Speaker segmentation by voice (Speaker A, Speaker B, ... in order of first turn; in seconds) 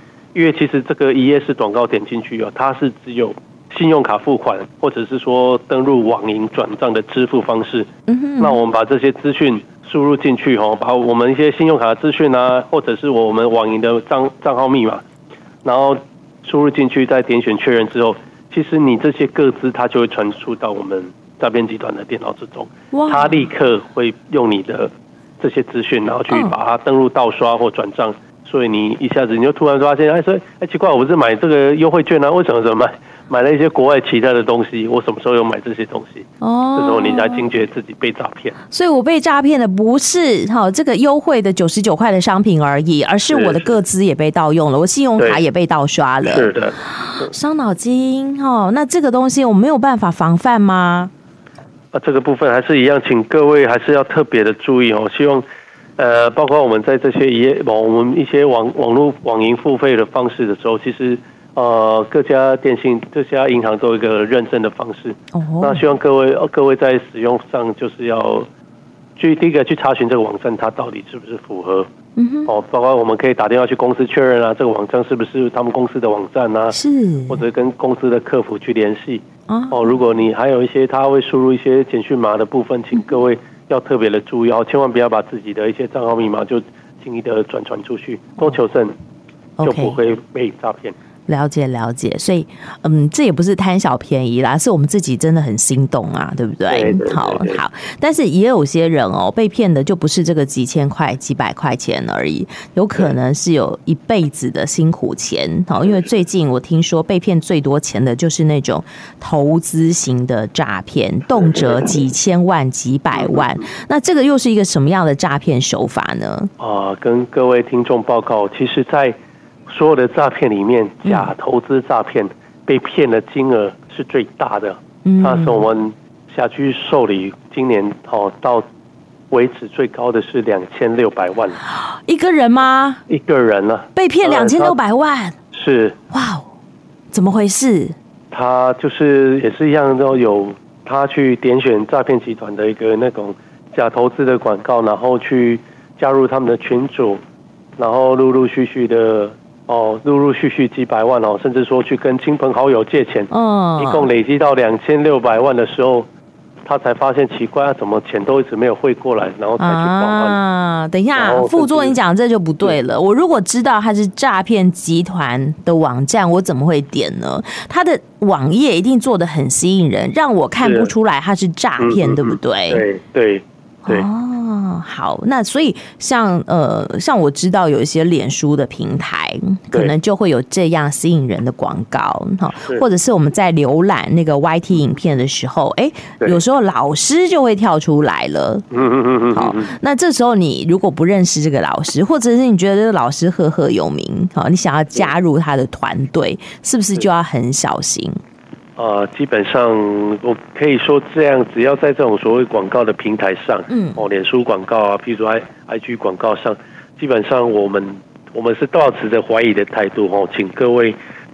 Speaker A: 0.3-15.0, 15.6-38.6, 43.3-43.8, 45.2-45.4, 46.2-47.3, 51.9-55.5, 56.0-68.5, 69.2-71.9, 72.5-89.0, 89.6-91.0, 96.7-97.6, 111.3-112.0, 113.1-113.7, 116.6-128.7, 129.3-131.6, 133.1-134.8, 135.5-136.0, 138.3-147.2, 147.8-156.1, 156.7-160.4, 161.2-162.0, 170.6-170.9, 171.8-174.1, 182.6-182.8, 188.7-189.7, 198.8-211.0
Speaker B: 8.1-8.6, 22.9-23.5, 36.4-37.5, 38.7-51.1, 65.3-65.8, 72.2-72.5, 76.7-77.4, 79.5-79.9, 82.9-83.2, 89.6-90.0, 91.3-116.5, 121.0-121.3, 125.0-125.7, 131.9-133.0, 134.0-135.4, 136.1-136.5, 137.1-138.0, 153.3-154.1, 159.6-172.9, 173.9-188.7, 189.3-198.2, 203.7-204.0